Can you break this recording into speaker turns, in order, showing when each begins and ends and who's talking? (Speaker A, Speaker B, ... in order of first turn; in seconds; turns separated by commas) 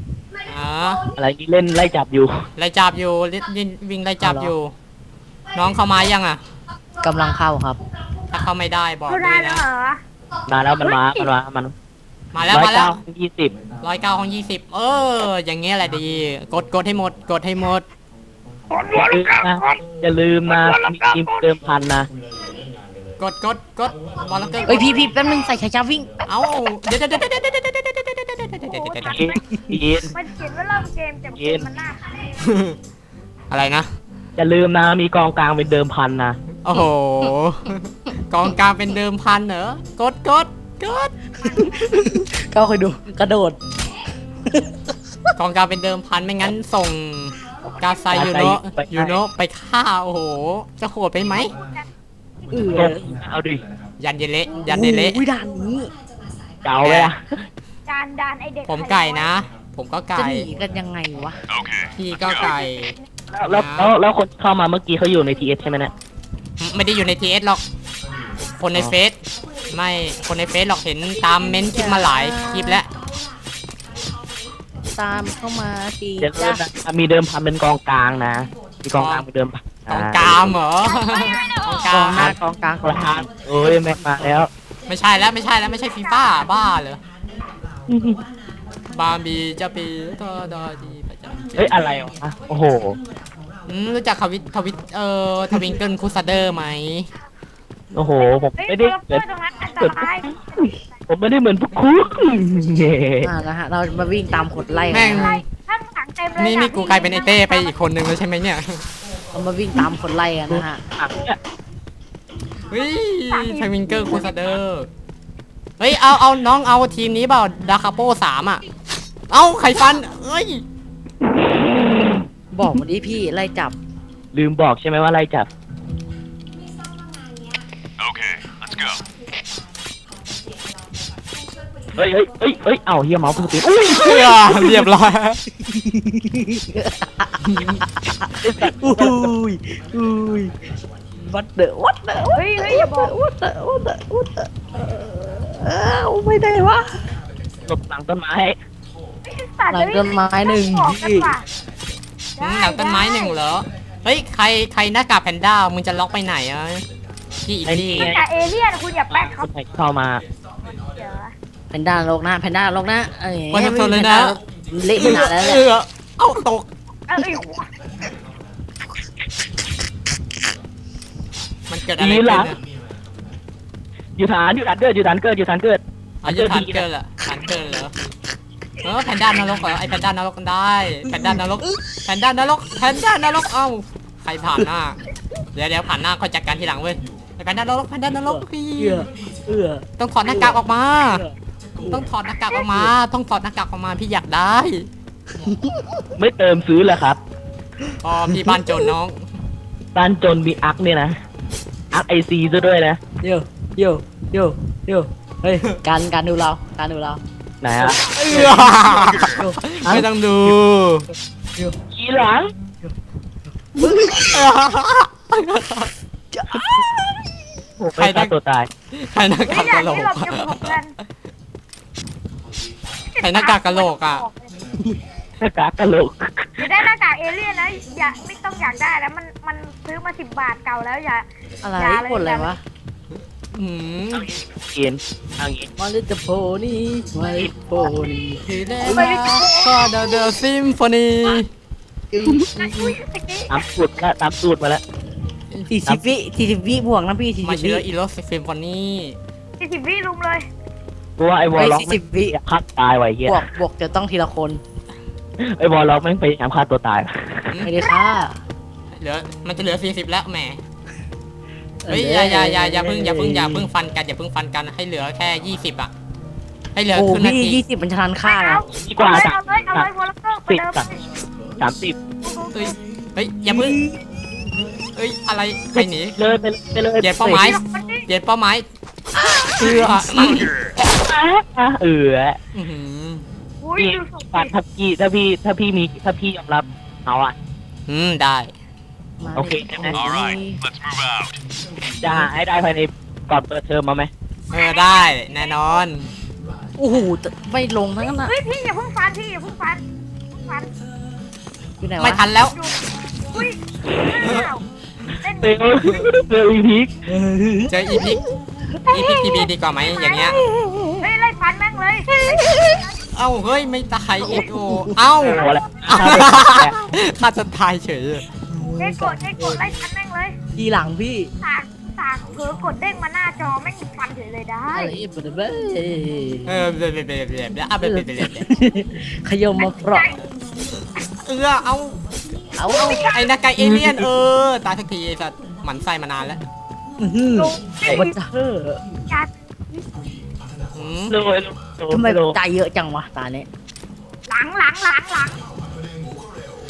Speaker A: 0.5-1.0, Speaker B: 1.2-2.3, Speaker A: 2.6-4.7, Speaker C: 4.2-4.5, Speaker A: 5.5-6.4, Speaker C: 7.0-7.8, Speaker A: 8.3-9.6, Speaker D: 9.1-10.0, Speaker B: 10.5-11.7, Speaker D: 10.8-11.3, Speaker A: 12.3-13.0, Speaker B: 12.5-13.6, Speaker A: 13.8-17.9, Speaker B: 18.9-22.1, Speaker A: 23.2-25.0, Speaker C: 24.6-26.3, Speaker A: 26.3-29.3, Speaker D: 28.7-29.4, Speaker B: 29.1-30.1, Speaker C: 29.5-30.1, Speaker D: 30.1-32.2, Speaker B: 31.4-31.7, Speaker A: 32.4-32.8, Speaker A: 33.5-33.9, Speaker B: 34.4-36.4, Speaker A: 36.6-41.1, Speaker C: 41.4-43.6, Speaker C: 44.5-45.3, Speaker A: 45.4-51.5, Speaker B: 48.1-49.2, Speaker D: 51.3-51.9, Speaker C: 52.5-53.1, Speaker B: 52.7-53.6, Speaker A: 54.0-55.2, Speaker C: 54.5-55.9, Speaker B: 56.6-57.2, Speaker A: 56.8-57.1, Speaker D: 57.9-59.3, Speaker A: 58.7-60.5, Speaker C: 60.1-61.4, Speaker E: 61.6-61.8, Speaker A: 61.9-62.9, Speaker D: 62.2-62.7, Speaker B: 63.3-65.9, Speaker A: 63.5-63.9, Speaker A: 66.6-67.6, Speaker A: 68.6-69.2, Speaker A: 69.7-72.9, Speaker C: 71.5-72.8, Speaker C: 74.9-76.6, Speaker B: 76.2-80.5, Speaker A: 79.0-79.3, Speaker A: 79.9-82.3, Speaker D: 80.8-81.9, Speaker C: 81.9-83.3, Speaker B: 82.2-84.5, Speaker A: 84.9-87.0, Speaker D: 85.8-86.3, Speaker B: 87.9-88.2, Speaker A: 88.9-91.8, Speaker B: 91.6-93.0, Speaker A: 93.7-97.1, Speaker B: 97.9-99.3, Speaker D: 98.6-101.0, Speaker B: 99.8-103.3, Speaker C: 103.2-105.4, Speaker A: 104.9-105.4, Speaker D: 104.9-107.8, Speaker A: 106.4-108.8, Speaker C: 109.3-110.8, Speaker B: 110.5-111.4, Speaker A: 112.7-114.9, Speaker D: 112.7-114.4, Speaker A: 115.8-118.6, Speaker A: 119.3-120.6, Speaker B: 121.6-122.1, Speaker C: 122.5-123.8, Speaker B: 124.3-125.5, Speaker E: 128.0-129.0, Speaker B: 132.0-134.4, Speaker A: 133.9-135.4, Speaker C: 134.5-134.8, Speaker C: 135.6-140.5, Speaker A: 137.5-137.8, Speaker B: 138.4-139.3, Speaker C: 141.2-147.1, Speaker D: 142.3-143.1, Speaker B: 147.7-148.6, Speaker D: 149.3-151.4, Speaker C: 149.7-151.3, Speaker D: 152.4-153.4, Speaker A: 152.4-156.8, Speaker A: 157.4-158.1, Speaker B: 157.7-158.2, Speaker D: 158.0-159.5, Speaker B: 159.1-160.2, Speaker D: 160.7-161.3, Speaker C: 161.7-165.6, Speaker A: 163.5-164.4, Speaker A: 165.0-166.7, Speaker D: 167.1-167.7, Speaker A: 171.7-172.6, Speaker B: 172.0-172.5, Speaker B: 174.2-176.9, Speaker A: 176.2-177.9, Speaker A: 178.8-185.0, Speaker C: 181.1-182.0, Speaker A: 185.5-189.1, Speaker C: 188.2-192.9, Speaker A: 190.0-191.2, Speaker A: 191.8-194.9, Speaker C: 195.4-196.1, Speaker B: 196.2-197.2, Speaker A: 198.0-199.2, Speaker C: 198.2-198.9, Speaker B: 199.9-201.2, Speaker B: 201.9-203.0, Speaker C: 203.2-207.2, Speaker B: 207.6-208.5, Speaker C: 207.8-209.6, Speaker A: 208.3-211.1, Speaker B: 209.8-210.1, Speaker B: 211.9-212.5, Speaker C: 213.6-214.4, Speaker A: 214.2-215.9, Speaker C: 216.3-217.3, Speaker B: 217.8-218.7, Speaker A: 217.9-218.3, Speaker A: 218.9-220.7, Speaker D: 219.4-220.9, Speaker D: 223.1-224.5, Speaker A: 223.2-224.2, Speaker B: 225.4-226.7, Speaker D: 226.6-231.3, Speaker C: 231.6-232.6, Speaker D: 231.8-232.5, Speaker A: 233.5-234.3, Speaker B: 234.1-235.7, Speaker C: 235.8-239.2, Speaker A: 238.4-241.5, Speaker D: 238.9-240.3, Speaker C: 242.1-242.9, Speaker D: 242.6-243.6, Speaker B: 243.5-244.8, Speaker C: 245.7-247.8, Speaker A: 247.4-249.2, Speaker D: 249.6-250.5, Speaker B: 251.2-253.4, Speaker C: 251.5-252.4, Speaker C: 253.3-254.6, Speaker B: 255.4-257.5, Speaker C: 257.6-258.4, Speaker D: 257.8-258.2, Speaker A: 259.0-260.6, Speaker C: 261.8-263.7, Speaker A: 261.9-265.9, Speaker A: 266.8-267.6, Speaker C: 266.9-268.6, Speaker D: 268.2-271.0, Speaker B: 268.8-269.9, Speaker B: 270.4-270.9, Speaker B: 271.6-272.0, Speaker D: 272.2-272.8, Speaker A: 272.5-273.8, Speaker C: 273.5-274.0, Speaker A: 274.9-276.2, Speaker B: 276.2-277.1, Speaker A: 277.0-278.6, Speaker C: 277.2-277.5, Speaker D: 277.4-278.1, Speaker C: 279.3-279.9, Speaker A: 279.4-280.5, Speaker B: 280.8-282.4, Speaker A: 282.5-283.3, Speaker D: 283.6-284.5, Speaker B: 283.8-287.4, Speaker A: 287.9-288.5, Speaker C: 289.2-290.6, Speaker B: 289.4-290.1, Speaker E: 290.1-290.4, Speaker E: 290.9-291.3, Speaker B: 292.0-294.1, Speaker C: 292.1-292.3, Speaker D: 294.5-295.8, Speaker A: 294.5-296.1, Speaker C: 296.8-298.3, Speaker D: 298.2-300.7, Speaker C: 301.8-302.3, Speaker A: 302.0-302.6, Speaker D: 302.3-302.8, Speaker D: 303.3-304.7, Speaker D: 305.2-305.7, Speaker B: 305.4-306.9, Speaker C: 307.1-308.3, Speaker A: 307.7-308.2, Speaker C: 308.9-309.2, Speaker A: 308.9-310.4, Speaker D: 309.8-310.4, Speaker C: 310.4-311.1, Speaker D: 311.0-312.7, Speaker C: 312.1-312.9, Speaker A: 313.1-318.2, Speaker C: 314.2-315.0, Speaker B: 315.2-316.8, Speaker C: 318.5-319.7, Speaker D: 318.8-320.4, Speaker C: 320.6-321.3, Speaker D: 321.4-324.9, Speaker C: 324.7-326.5, Speaker A: 326.5-328.5, Speaker C: 327.8-330.1, Speaker D: 329.6-330.3, Speaker A: 331.2-332.0, Speaker C: 332.6-333.1, Speaker D: 332.7-333.2, Speaker A: 332.7-336.4, Speaker B: 333.6-333.9, Speaker C: 337.0-338.8, Speaker D: 337.4-338.2, Speaker D: 339.1-339.8, Speaker A: 340.7-341.1, Speaker B: 341.1-342.4, Speaker C: 341.9-343.5, Speaker D: 344.3-345.4